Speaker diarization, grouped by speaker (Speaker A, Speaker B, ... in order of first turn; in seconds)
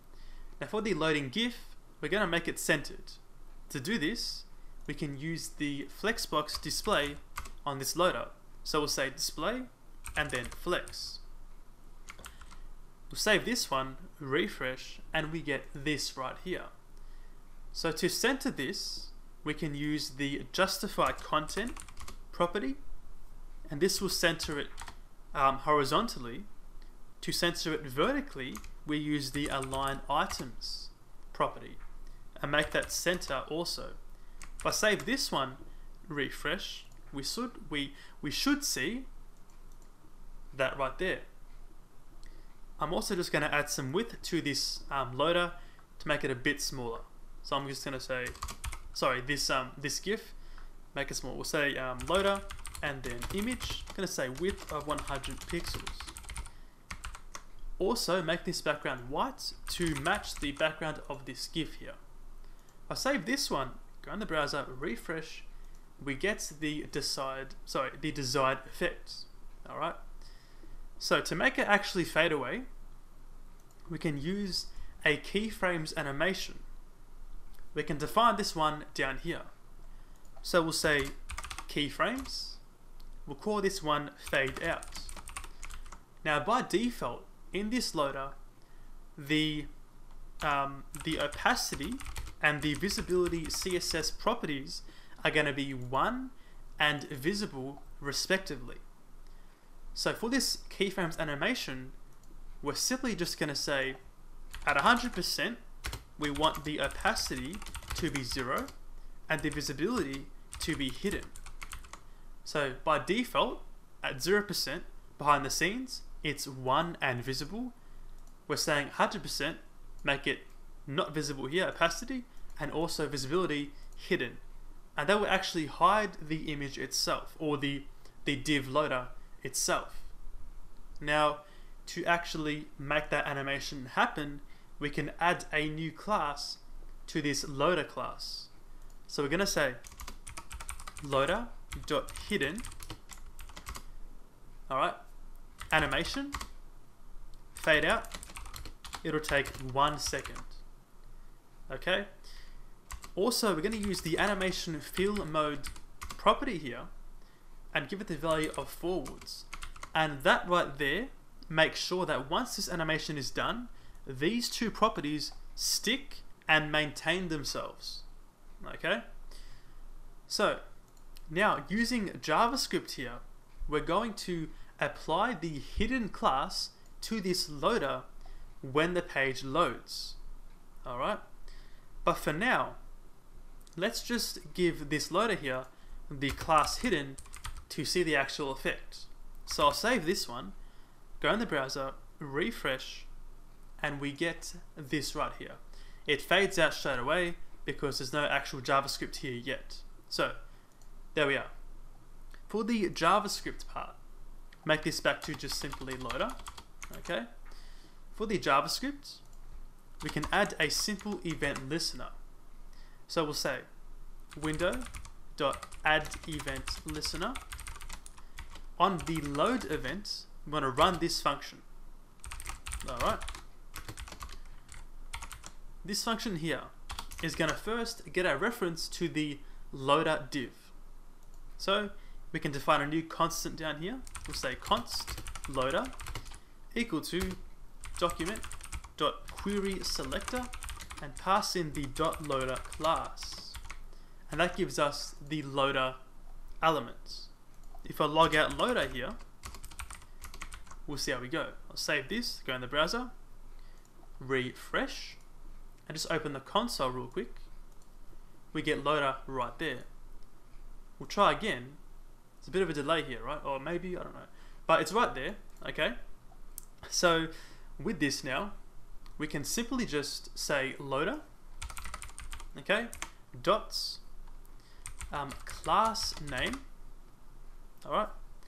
Speaker A: 0.6-11.2, 13.1-16.7, 17.7-21.8, 22.3-22.8, 23.7-24.7, 25.3-26.5, 27.2-31.8, 32.4-34.0, 34.6-39.1, 40.5-41.3, 42.8-48.4, 48.9-50.4, 50.9-56.1, 57.8-62.0, 62.9-65.5, 66.0-70.0, 71.0-72.7, 73.9-76.7, 77.7-79.5, 80.4-81.2, 81.7-82.6, 83.2-85.1, 86.2-88.4, 89.2-89.7, 90.4-98.8, 100.0-102.0, 102.6-104.0, 104.7-105.6, 106.2-108.7, 109.3-111.3, 112.5-117.8, 118.5-124.4, 125.0-130.1, 131.0-138.5, 139.1-139.8, 141.0-142.7, 144.7-145.0, 145.7-146.4, 147.5-148.1, 149.0-150.6, 151.7-152.1, 153.2-156.9, 157.7-168.1, 168.6-169.1, 170.3-170.6, 171.3-178.1, 178.6-180.2, 180.8-181.2, 182.0-182.8, 183.8-190.6, 191.2-193.1, 193.8-200.4, 201.1-201.5, 202.5-204.0, 204.7-207.3, 208.1-209.2, 210.0-212.2, 213.1-213.7, 214.3-217.4, 218.8-221.7, 222.8-223.2, 225.8-230.7, 231.6-235.9, 236.7-237.4, 238.0-243.6, 244.3-246.0, 246.6-247.3, 247.8-249.2, 250.9-253.1, 254.2-255.2, 255.9-257.4, 258.5-259.9, 261.0-261.8, 262.4-266.0, 266.9-268.6, 269.2-271.2, 272.5-274.0, 275.1-276.7, 277.8-278.1